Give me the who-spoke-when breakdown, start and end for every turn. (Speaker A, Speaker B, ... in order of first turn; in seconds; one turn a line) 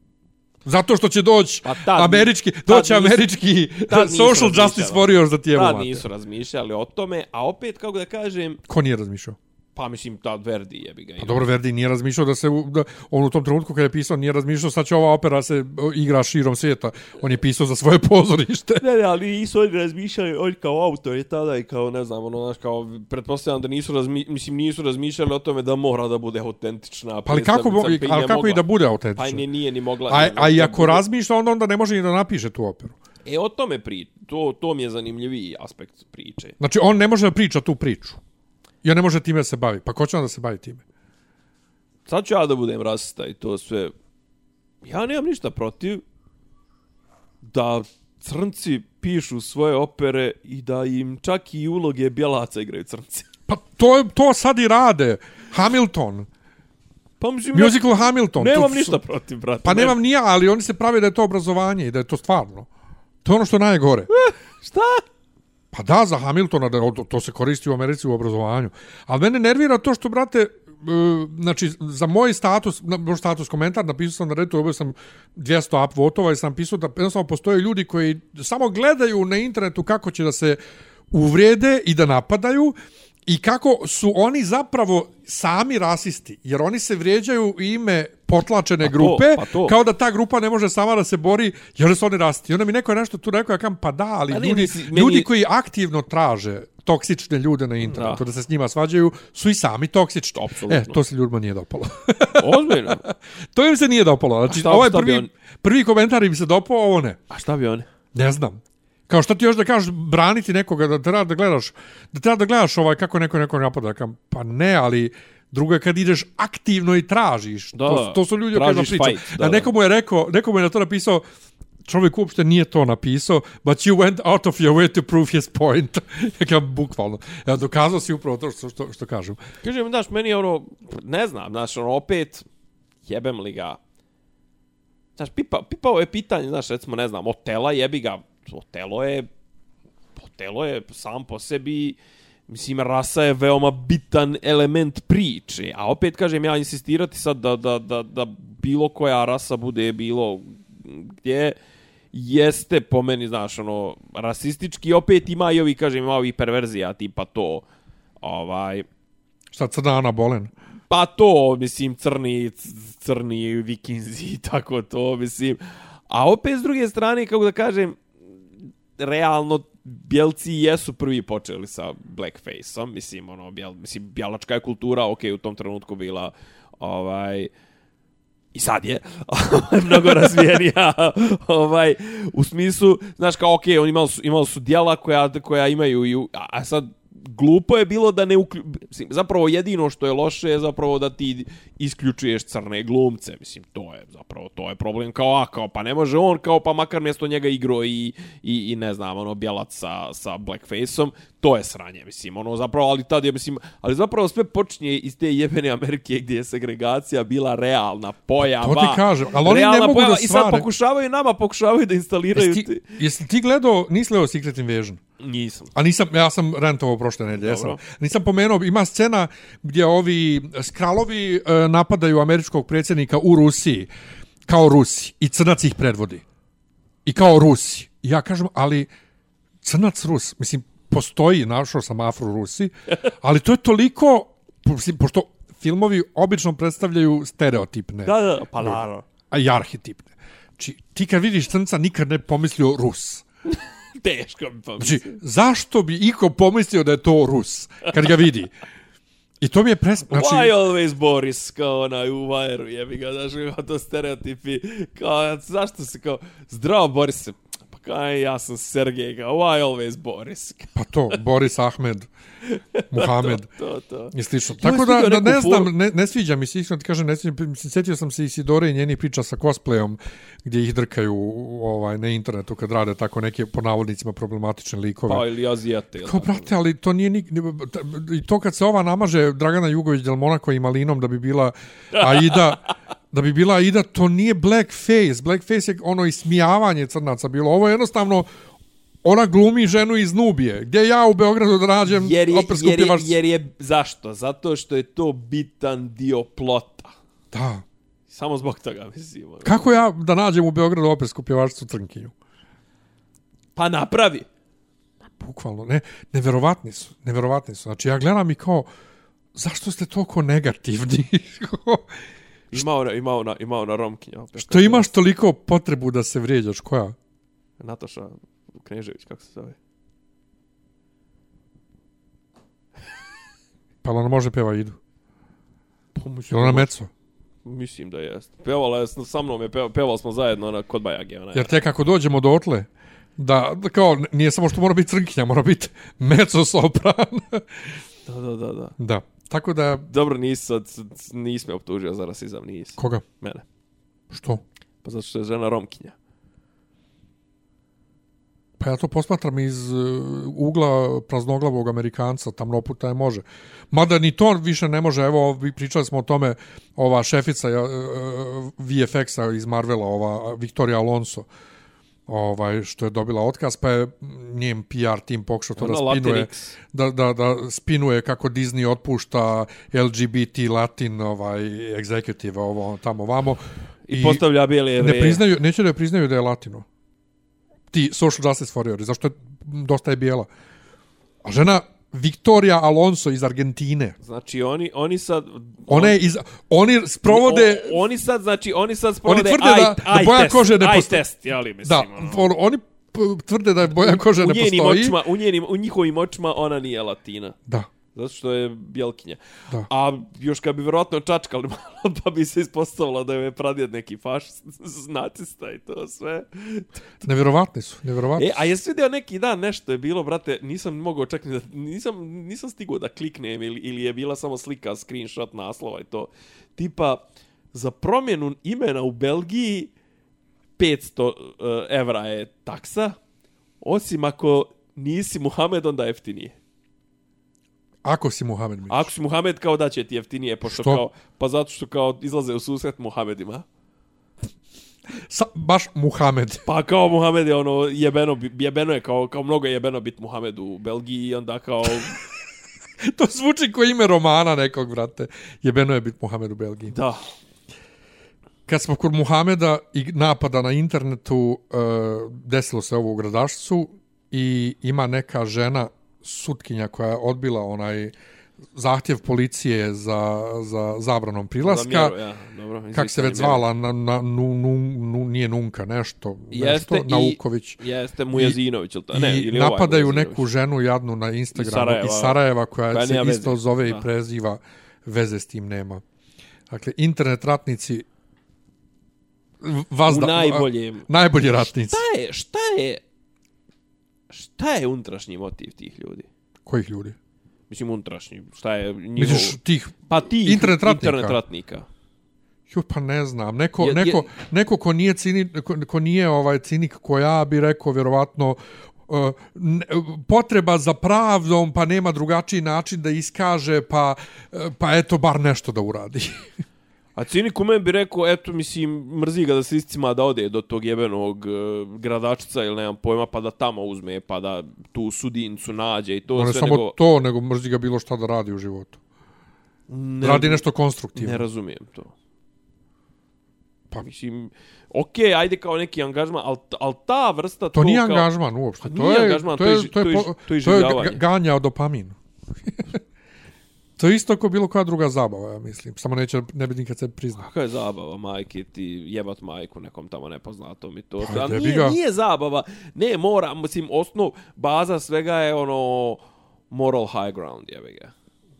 Speaker A: 0.6-6.0
Speaker B: 1.6-3.2
Speaker B: 3.9-8.6
Speaker A: 8.7-9.4
Speaker B: 9.8-11.4
Speaker A: 11.2-18.8
Speaker B: 18.8-28.6
Speaker A: 27.3-29.4
Speaker B: 29.1-31.0
Speaker A: 30.1-32.9
Speaker B: 33.3-36.6
Speaker A: 36.6-38.2
Speaker A: 38.8-40.8
Speaker B: 42.1-43.9
Speaker B: 44.8-46.0
Speaker B: 47.5-53.3
Speaker A: 53.5-56.3
Speaker B: 57.2-60.0
Speaker A: 57.5-59.0
Speaker A: 59.6-62.7
Speaker A: 63.2-64.1
Speaker B: 64.1-65.0
Speaker A: 65.7-80.6
Speaker A: 81.1-82.7
Speaker A: 83.3-107.2
Speaker B: 88.8-89.8
Speaker B: 94.3-95.3
Speaker B: 97.8-98.2
Speaker B: 100.3-101.0
Speaker B: 102.3-103.0
Speaker B: 104.5-105.3
Speaker B: 107.3-107.9
Speaker A: 108.1-121.2
Speaker B: 117.7-119.7
Speaker A: 121.8-129.4
Speaker B: 129.6-132.4
Speaker B: 133.1-133.8
Speaker B: 135.2-139.3
Speaker B: 140.2-142.0
Speaker B: 142.5-151.6
Speaker B: 152.1-157.6
Speaker B: 158.2-158.9
Speaker A: 159.5-160.5
Speaker B: 160.9-168.0
Speaker B: 169.0-177.5
Speaker B: 178.5-213.0
Speaker A: 208.4-210.7
Speaker A: 212.3-215.0
Speaker B: 215.2-215.7
Speaker A: 215.7-223.9
Speaker B: 217.3-217.8
Speaker A: 224.5-226.2
Speaker A: 227.1-228.9
Speaker A: 229.6-238.8
Speaker B: 238.1-239.1
Speaker A: 239.3-243.2
Speaker B: 243.5-245.2
Speaker A: 244.8-248.5
Speaker A: 249.4-250.5
Speaker B: 250.1-261.1
Speaker A: 260.7-262.1
Speaker B: 262.5-265.7
Speaker A: 262.9-263.5
Speaker A: 264.1-275.2
Speaker B: 275.1-276.5
Speaker A: 276.0-288.3
Speaker B: 281.9-282.5
Speaker A: 289.0-293.2
Speaker B: 291.9-296.9
Speaker A: 297.3-297.6
Speaker B: 298.1-299.7
Speaker A: 299.4-302.1
Speaker B: 303.6-304.3
Speaker A: 305.2-308.7
Speaker A: 309.4-312.0
Speaker B: 312.5-314.9
Speaker A: 314.4-316.9
Speaker B: 317.6-319.6
Speaker A: 323.8-324.8
Speaker B: 325.9-326.7
Speaker A: 326.3-326.9
Speaker B: 327.4-331.6
Speaker A: 331.3-337.7
Speaker B: 338.1-338.7
Speaker A: 338.8-339.9
Speaker B: 339.9-343.4
Speaker A: 342.8-343.0
Speaker A: 344.1-344.4
Speaker B: 344.8-345.9
Speaker A: 348.6-361.3
Speaker A: 362.1-374.2
Speaker B: 365.6-366.6
Speaker B: 373.9-375.2
Speaker A: 374.8-376.6
Speaker A: 377.7-380.3
Speaker A: 381.2-383.9
Speaker B: 384.0-385.9
Speaker A: 385.7-387.8
Speaker B: 387.1-392.3
Speaker A: 389.1-391.0
Speaker A: 391.6-395.0
Speaker B: 393.7-397.4
Speaker B: 397.9-406.7
Speaker A: 407.0-408.4
Speaker B: 408.1-417.0
Speaker B: 417.5-419.7
Speaker B: 420.6-423.0
Speaker B: 423.6-426.4
Speaker A: 427.8-428.9
Speaker B: 428.7-433.4
Speaker A: 430.5-430.8
Speaker A: 435.1-436.4
Speaker B: 436.4-442.0
Speaker A: 442.8-446.8
Speaker B: 446.7-447.0
Speaker A: 448.5-457.9
Speaker A: 458.5-461.9
Speaker B: 461.4-463.4
Speaker A: 462.7-467.6
Speaker B: 466.3-470.3
Speaker A: 468.9-475.8
Speaker B: 471.3-472.2
Speaker B: 472.7-473.9
Speaker A: 476.5-477.9
Speaker A: 479.4-481.8
Speaker B: 479.9-482.8
Speaker B: 484.1-486.1
Speaker A: 486.4-486.9
Speaker B: 487.5-489.4
Speaker A: 489.0-491.2
Speaker B: 489.9-491.7
Speaker A: 492.5-506.3
Speaker B: 493.6-494.1
Speaker B: 506.9-516.7
Speaker A: 516.1-518.8
Speaker B: 519.7-520.4
Speaker A: 520.0-521.2
Speaker B: 520.9-521.9
Speaker B: 523.8-528.1
Speaker A: 527.5-532.8
Speaker B: 528.6-531.0
Speaker A: 533.8-537.3
Speaker B: 537.2-547.9
Speaker A: 541.0-541.8